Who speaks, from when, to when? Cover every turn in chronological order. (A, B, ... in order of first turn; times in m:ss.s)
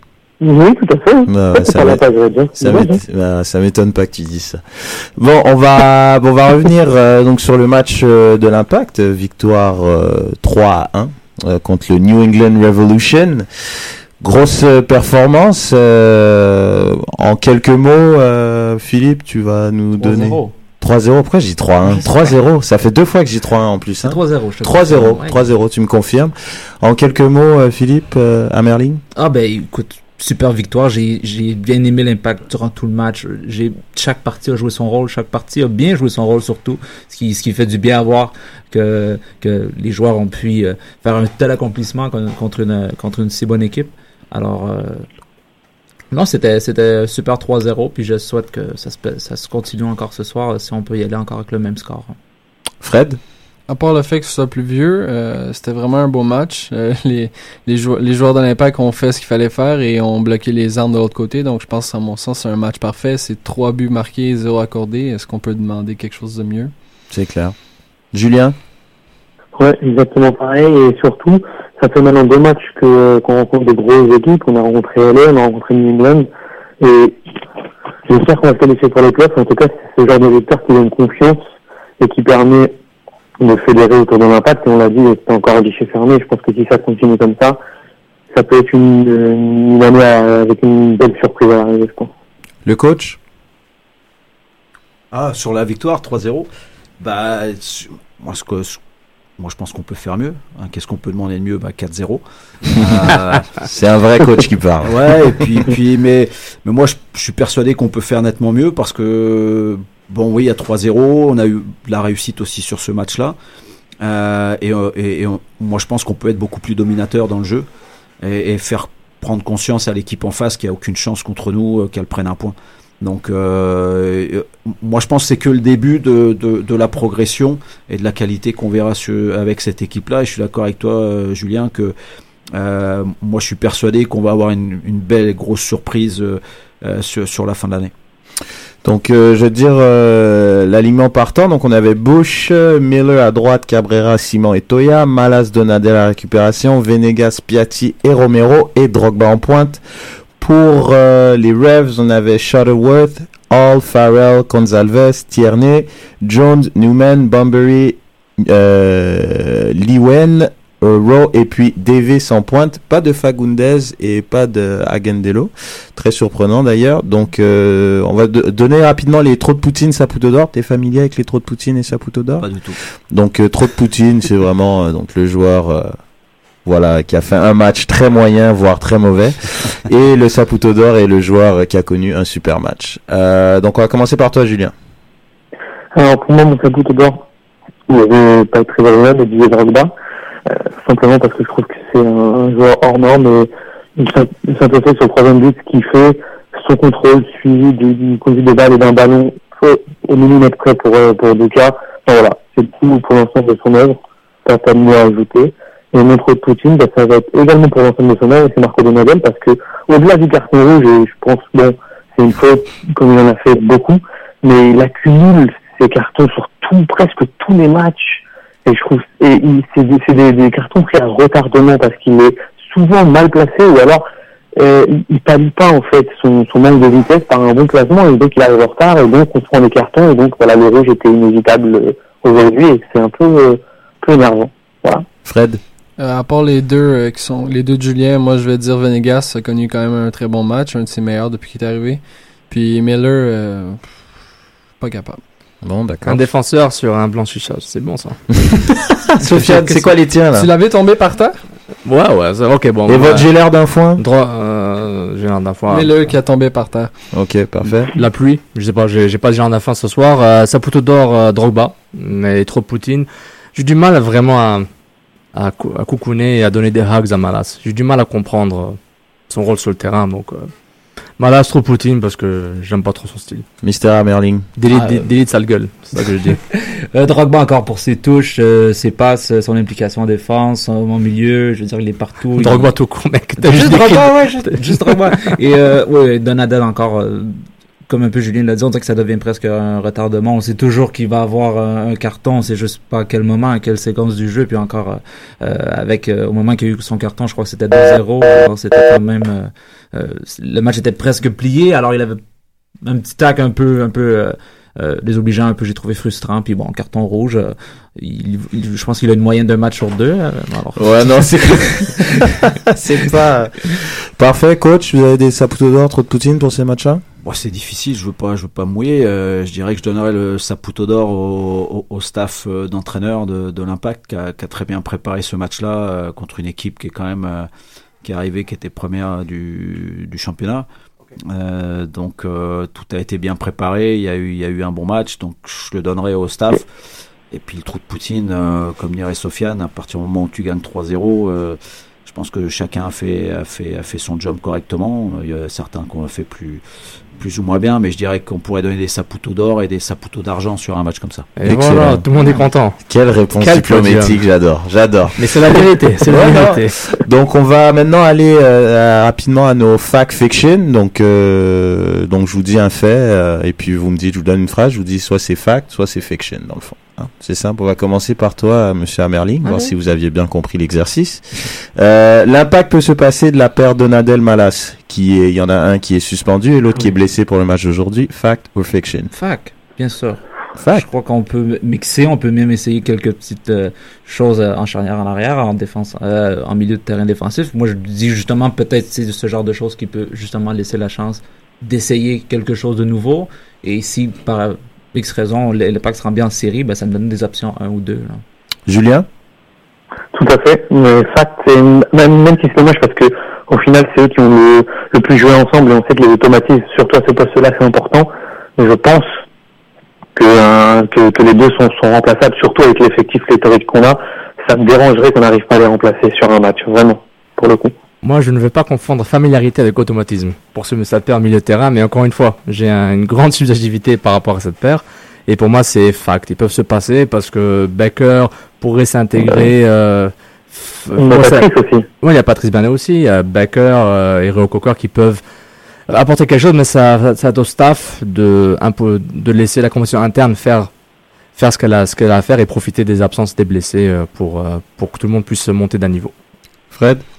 0:00.4-0:03.0 A
0:01.3-0:02.0 B
0:02.6-0:29.0 B
0:20.0-0:20.5 C
0:21.8-0:22.4 C
0:24.0-0:25.5 C
0:29.1-0:45.1 C
0:46.1-0:52.1 C
0:52.8-0:53.2 B
0:53.7-1:06.7 D
1:07.1-1:07.5 B
1:08.1-1:08.6 B
1:09.6-1:16.3 A
1:16.8-1:17.2 A
1:18.1-1:21.4 A
1:22.0-1:22.7 A
1:23.4-1:27.6 A
1:28.3-1:32.1 A
1:32.6-1:33.2 B
1:35.1-1:36.5 E
1:37.0-1:38.8 E
1:39.4-1:43.6 E
1:42.8-1:43.0 B
1:43.6-1:45.0 B
1:44.8-1:53.4 E
1:54.0-1:57.6 E
1:58.2-2:11.9 E
2:12.5-2:17.9 E
2:18.8-2:29.8 B
2:30.4-2:52.5 B
2:52.4-2:52.8 E
2:53.1-2:55.9 B
2:56.6-3:04.7 B
3:05.9-3:07.2 A
3:07.9-3:09.9 A
3:10.5-3:44.0 A
3:44.6-3:55.0 A
3:55.2-3:55.6 B
3:56.0-4:04.0 D
4:04.8-4:05.2 D
4:05.6-4:06.2 B
4:06.0-4:08.2 F
4:09.2-4:10.5 B
4:09.3-4:09.9 F
4:10.3-4:11.4 D
4:11.8-4:13.3 F
4:12.9-4:14.0 B
4:14.0-4:16.2 F
4:15.7-4:16.9 D
4:17.1-4:17.9 B
4:17.9-4:24.7 F
4:25.3-4:28.8 F
4:29.3-4:30.5 F
4:31.2-4:33.4 F
4:33.6-4:35.0 B
4:34.6-4:36.4 F
4:36.0-4:36.4 B
4:36.5-4:42.7 C
4:42.4-4:45.3 F
4:43.4-5:02.2 C
5:02.8-5:12.0 C
5:10.8-5:17.0 B
5:17.2-5:27.5 E
5:28.0-5:30.6 E
5:31.3-5:36.6 E
5:37.3-5:46.6 E
5:47.2-5:51.3 E
5:51.4-5:52.8 F
5:51.4-5:52.0 B
5:52.8-6:19.1 B
5:53.4-5:54.2 F
5:55.2-5:56.8 F
6:09.4-6:09.7 C
6:19.1-6:20.2 C
6:20.6-6:20.8 B
6:20.7-6:38.2 C
6:38.7-6:39.1 B
6:40.1-6:49.1 A
6:50.2-6:57.7 A
6:58.0-7:11.5 F
7:11.0-7:11.8 A
7:12.0-7:15.2 F
7:15.9-7:20.7 F
7:21.4-7:26.1 F
7:26.7-7:27.0 B